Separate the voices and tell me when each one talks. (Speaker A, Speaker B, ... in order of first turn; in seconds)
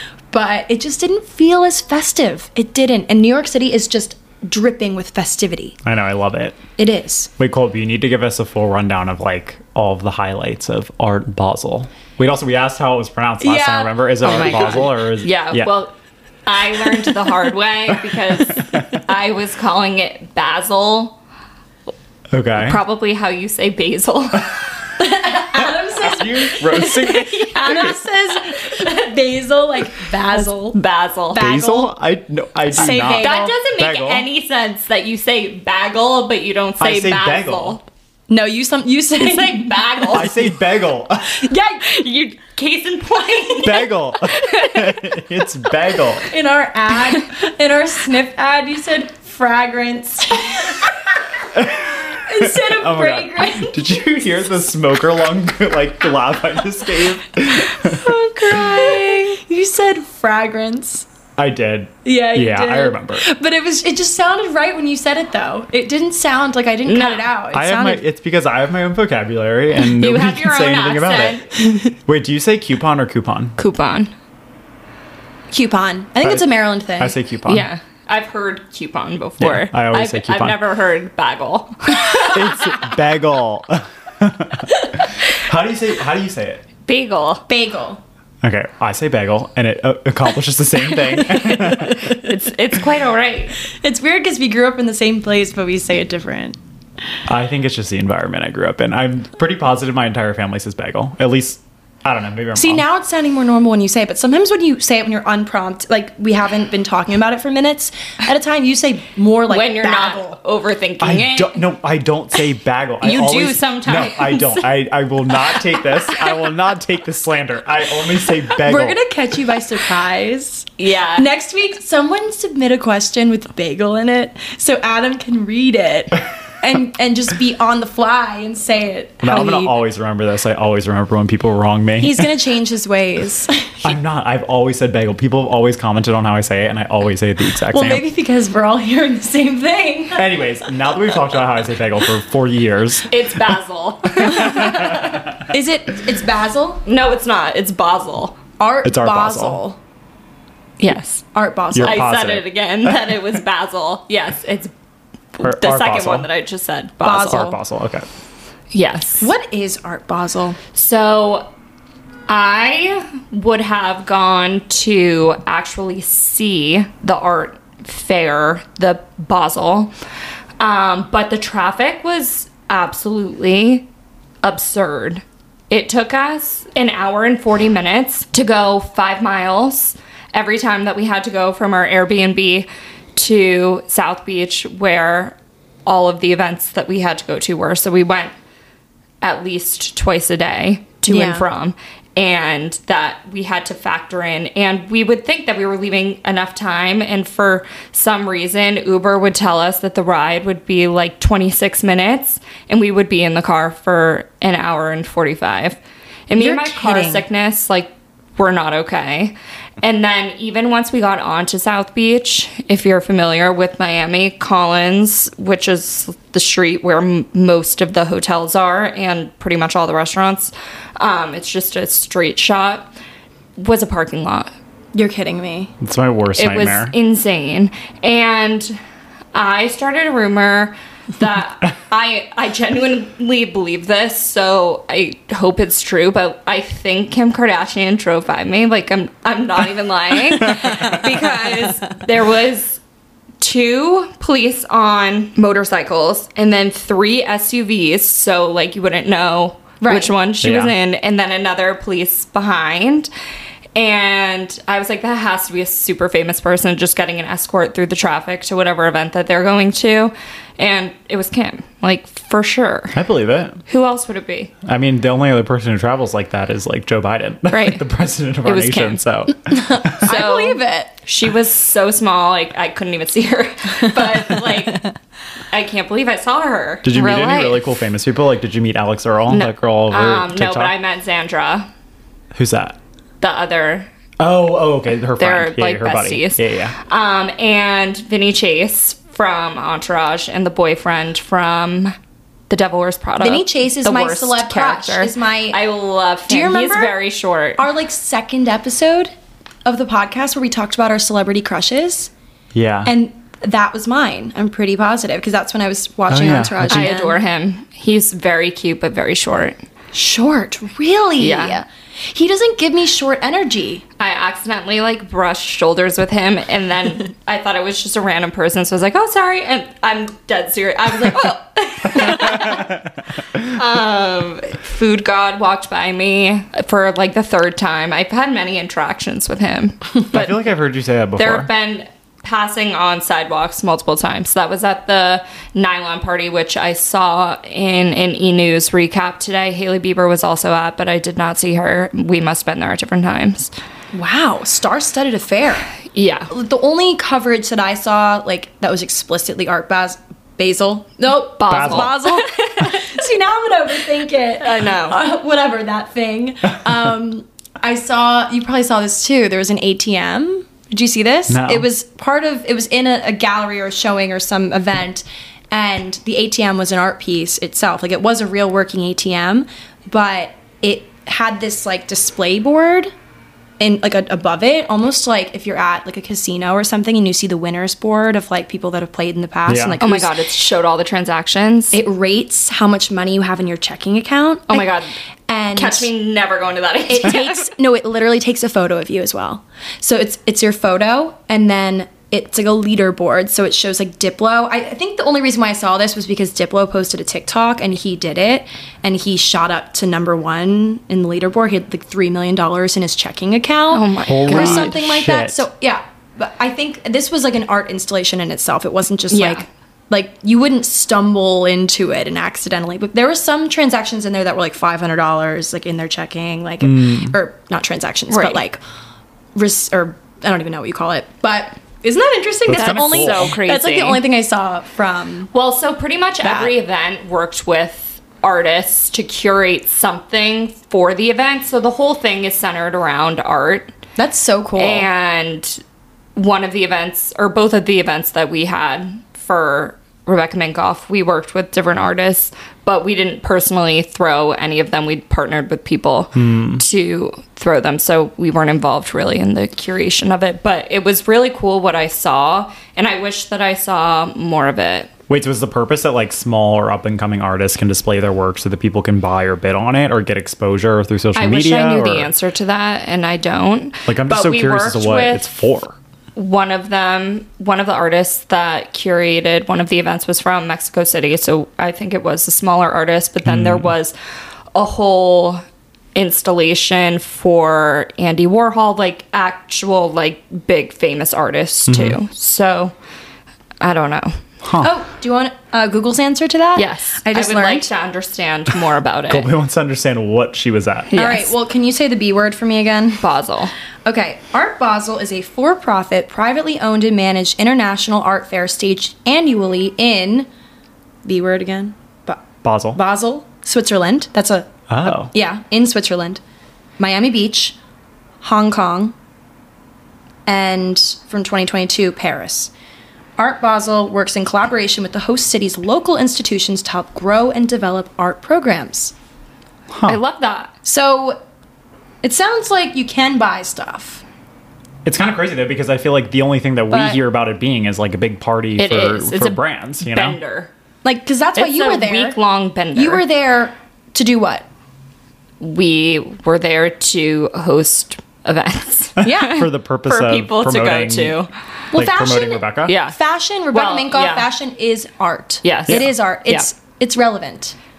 Speaker A: 0.3-5.8, 6.8-7.3, 13.4-14.9, 25.0-30.8, 31.3-31.9, 32.7-33.6, 38.3-40.2, 41.7-42.0, 46.3-50.9, 52.1-54.0, 57.8-61.1, 62.0-68.0, 75.5-77.2, 87.5-88.0, 91.8-92.2, 93.8-96.6, 102.5-110.4, 118.6-129.8, 132.0-133.9, 137.7-140.3, 144.4-144.8, 145.4-146.8, 148.6-149.8, 151.3-152.1, 157.0-157.6, 159.2-160.6, 191.1-191.4, 206.3-207.2, 224.9-225.7, 249.8-250.1, 269.5-270.9, 293.2-295.6, 296.3-297.0, 297.6-299.1, 299.6-302.1, 302.9-307.2, 309.9-313.8, 343.9-345.7, 346.3-372.9, 373.6-380.1, 381.7-384.7, 385.3-385.9, 386.9-418.6, 419.3-425.3, 426.2-426.5, 434.0-434.9, 484.6-487.7, 490.9-493.0, 493.8-500.3, 501.0-506.2, 506.8-507.6, 508.2-508.9, 510.2-512.5, 513.2-518.9, 520.6-521.2, 522.0-524.0, 526.7-527.0, 530.8-532.2, 532.7-534.5, 539.0-539.4, 541.7-547.5
Speaker B: 5.8-6.6, 7.4-15.7, 22.3-22.8, 26.0-27.9, 31.3-34.3, 36.8-37.8, 40.1-41.5, 43.6-46.3, 51.5-58.0, 61.4-63.2, 67.5-73.5, 76.2-77.7, 79.4-80.6, 82.1-86.6, 88.4-92.1, 97.3-102.8, 111.0-119.0, 129.2-132.3, 133.8-138.0, 140.1-143.1, 144.2-145.3, 148.8-149.6, 151.7-153.1, 155.4-156.3, 157.2-158.1, 225.8-226.9, 250.4-250.7, 262.9-263.6, 264.6-269.9, 276.8-280.7, 282.3-282.8, 284.2-286.7, 302.5-302.9, 306.1-306.9, 322.3-322.6, 330.1-331.5, 351.5-351.9, 361.3-361.7, 379.5-379.8, 404.1-405.4, 416.6-417.1, 422.5-423.3, 446.1-446.6, 455.1-462.1, 463.9-465.8, 473.2-473.7, 481.7-482.0, 484.4-484.7, 489.1-490.9, 502.4-502.8, 504.7-505.1, 519.7-520.0, 524.8-530.2, 539.1-541.2, 541.7-542.8
Speaker C: 14.2-15.9, 16.4-21.2, 22.6-24.6, 27.5-27.9, 30.3-31.5, 32.8-37.8, 39.2-40.5, 41.5-45.0, 58.5-59.3, 66.8-67.3, 70.0-71.5, 73.6-74.1, 77.5-82.8, 86.8-87.5, 91.3-93.6, 109.5-111.6, 113.0-114.8, 115.4-116.3, 120.8-121.3, 143.1-145.3, 146.8-148.4, 150.8-151.2, 151.8-154.7, 155.3-157.5, 158.7-159.3, 160.7-161.5, 162.3-169.9, 170.6-173.9, 174.4-188.3, 189.2-222.9, 223.6-224.5, 226.3-228.8, 229.3-242.8, 243.4-253.1, 253.7-263.0, 263.7-264.5, 267.5-267.9, 268.4-269.0, 270.0-274.9, 275.5-277.7, 279.3-281.7, 283.2-283.9, 285.2-291.9, 292.5-297.6, 306.7-309.6, 311.2-311.6, 314.0-322.8, 323.4-330.5, 331.1-343.5, 345.9-346.3, 351.4-353.0, 354.4-355.0, 379.8-381.8, 384.5-384.9, 385.5-387.5, 403.7-404.7, 409.1-409.4, 418.1-418.4, 422.5-424.0, 425.3-433.7, 434.6-435.6, 436.1-454.9, 461.1-465.3, 466.1-473.9, 474.5-475.4, 475.9-482.7, 483.6-484.2, 486.6-489.3, 490.9-491.3, 493.0-493.5, 519.9-520.5, 528.6-530.5, 531.3-533.0, 535.4-541.3, 542.6-543.0, 543.5-544.3, 545.4-546.5